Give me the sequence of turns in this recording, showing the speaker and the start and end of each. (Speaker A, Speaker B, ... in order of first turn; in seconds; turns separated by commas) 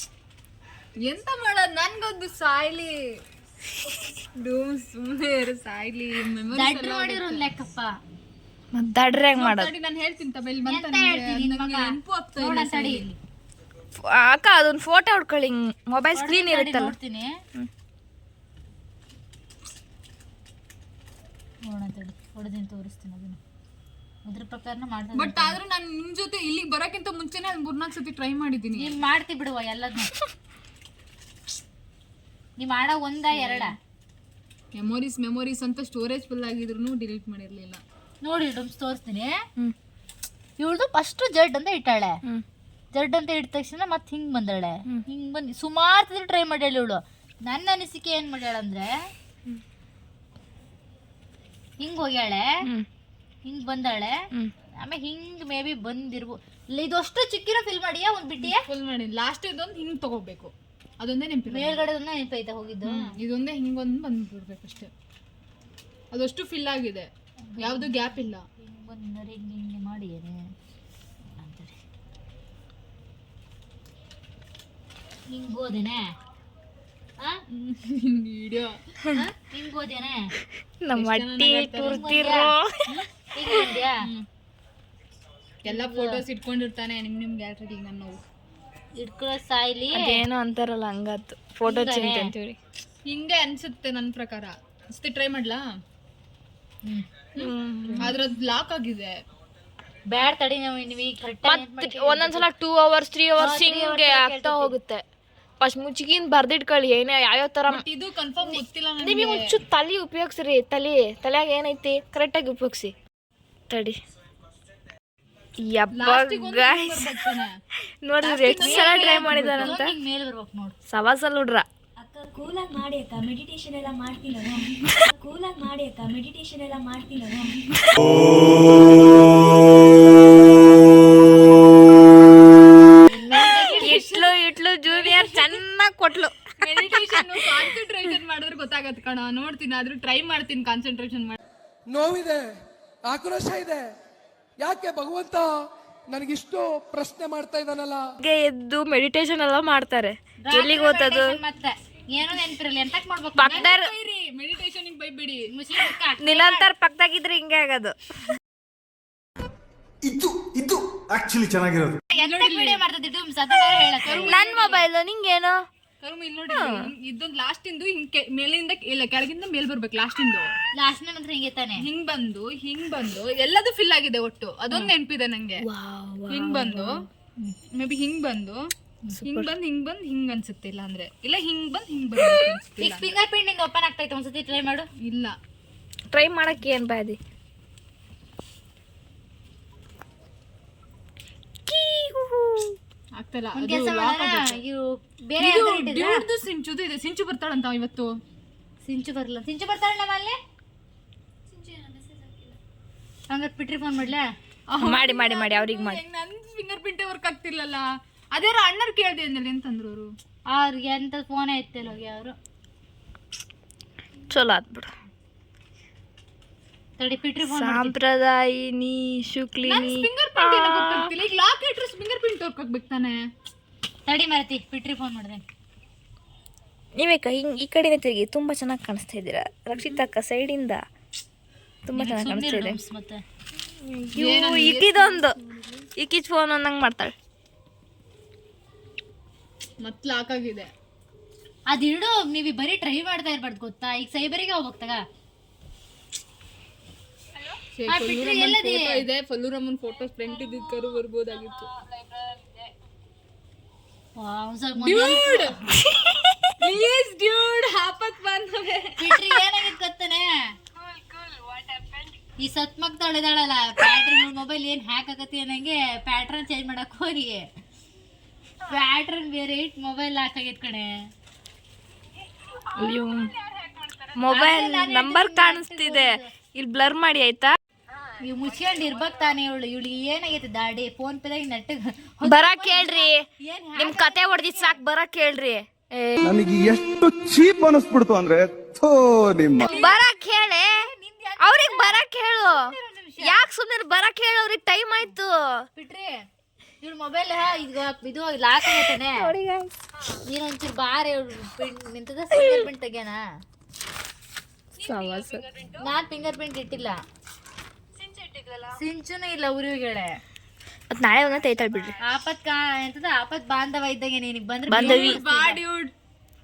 Speaker A: 1.0-3.0, Speaker A: 4.4-7.5, Speaker B: 6.5-7.9, Speaker C: 8.7-9.7, Speaker A: 9.4-13.0, Speaker B: 10.7-13.2, Speaker C: 14.0-16.9, Speaker B: 16.1-17.4, Speaker B: 21.7-23.4, Speaker B: 24.3-25.6, Speaker A: 25.1-29.0, Speaker B: 28.8-30.2, Speaker B: 32.6-33.8, Speaker A: 33.3-33.7, Speaker A: 34.8-37.8, Speaker B: 38.2-39.4, Speaker B: 40.6-42.2, Speaker B: 42.9-49.1, Speaker B: 51.8-52.5, Speaker B: 53.5-54.2, Speaker B: 54.8-58.6, Speaker A: 58.5-61.8, Speaker B: 61.5-63.1, Speaker A: 62.9-64.9, Speaker A: 66.1-67.1, Speaker B: 67.5-68.1, Speaker A: 67.6-68.4, Speaker B: 68.6-70.5, Speaker B: 71.3-71.8, Speaker B: 75.3-76.1, Speaker A: 77.5-78.8, Speaker B: 79.2-80.3, Speaker C: 80.8-83.7, Speaker A: 80.9-82.3, Speaker B: 81.8-84.1, Speaker A: 85.7-88.2, Speaker B: 85.7-86.2, Speaker B: 89.0-90.2, Speaker C: 89.9-92.6, Speaker B: 91.6-92.3, Speaker A: 93.1-95.6, Speaker A: 97.4-99.2, Speaker C: 97.4-98.1, Speaker B: 100.1-102.5, Speaker C: 101.5-105.0, Speaker B: 103.4-104.7, Speaker C: 105.6-107.8, Speaker A: 107.7-109.5, Speaker C: 108.4-112.9, Speaker C: 113.7-114.0, Speaker C: 115.6-117.3, Speaker A: 116.0-117.6, Speaker C: 118.0-120.0, Speaker A: 118.2-119.8, Speaker B: 118.3-120.8, Speaker C: 120.9-121.7, Speaker D: 122.2-124.3, Speaker C: 123.4-123.7, Speaker B: 124.1-124.7, Speaker C: 124.7-125.1, Speaker D: 125.3-127.1, Speaker B: 127.0-127.5, Speaker C: 127.6-128.0, Speaker B: 133.1-134.1, Speaker C: 133.3-137.7, Speaker A: 133.4-134.3, Speaker A: 134.9-135.6, Speaker A: 136.6-141.4, Speaker E: 141.9-142.5, Speaker E: 143.1-143.9, Speaker E: 144.6-145.5, Speaker E: 146.1-148.0, Speaker C: 148.2-151.4, Speaker B: 150.4-153.7, Speaker C: 153.4-153.9, Speaker A: 153.4-155.5, Speaker B: 155.5-156.7, Speaker C: 156.2-158.0, Speaker F: 160.1-161.9, Speaker E: 160.1-162.0, Speaker B: 162.2-164.8, Speaker A: 162.2-162.8, Speaker A: 164.0-164.4, Speaker C: 164.2-165.6, Speaker A: 166.0-170.5, Speaker C: 166.5-166.9, Speaker B: 170.8-171.9, Speaker A: 171.8-175.7, Speaker C: 175.6-177.0, Speaker A: 176.3-177.0, Speaker A: 177.7-178.6, Speaker C: 179.1-179.5, Speaker A: 179.2-183.1, Speaker B: 182.8-184.9, Speaker A: 185.0-185.4, Speaker C: 186.1-187.2, Speaker C: 191.7-192.8, Speaker A: 193.2-194.6, Speaker B: 193.6-196.2, Speaker A: 195.4-198.2, Speaker B: 198.8-200.4, Speaker A: 201.6-202.4, Speaker B: 203.3-204.3, Speaker A: 204.7-210.1, Speaker C: 204.8-206.0, Speaker B: 210.5-212.4, Speaker C: 214.3-214.9, Speaker B: 217.0-217.9, Speaker C: 217.4-221.1, Speaker A: 219.7-223.3, Speaker B: 224.1-225.5, Speaker C: 227.0-230.8, Speaker C: 231.9-232.8, Speaker B: 232.0-233.2, Speaker C: 233.8-235.4, Speaker A: 234.2-235.8, Speaker C: 236.0-237.1, Speaker A: 239.8-240.7, Speaker B: 241.7-245.0, Speaker A: 247.8-251.7, Speaker B: 247.9-249.0, Speaker B: 254.2-255.5, Speaker A: 254.8-255.6, Speaker C: 255.8-256.6, Speaker A: 256.6-259.0, Speaker B: 259.0-260.5, Speaker B: 262.4-267.5, Speaker B: 268.7-270.9, Speaker C: 272.8-273.3, Speaker C: 274.1-277.6, Speaker B: 274.3-276.3, Speaker B: 278.2-284.8, Speaker C: 282.2-283.2, Speaker C: 283.8-286.3, Speaker F: 286.2-289.7, Speaker E: 287.6-288.1, Speaker B: 289.6-293.4, Speaker C: 289.7-290.9, Speaker C: 291.4-295.6, Speaker B: 295.8-296.3, Speaker B: 296.8-299.3, Speaker C: 298.6-299.7, Speaker B: 300.3-303.2, Speaker C: 302.4-302.7, Speaker C: 304.8-305.5, Speaker B: 305.8-307.0, Speaker B: 308.7-310.2, Speaker C: 310.9-312.0, Speaker B: 312.0-315.6, Speaker C: 314.7-315.2, Speaker A: 314.7-315.9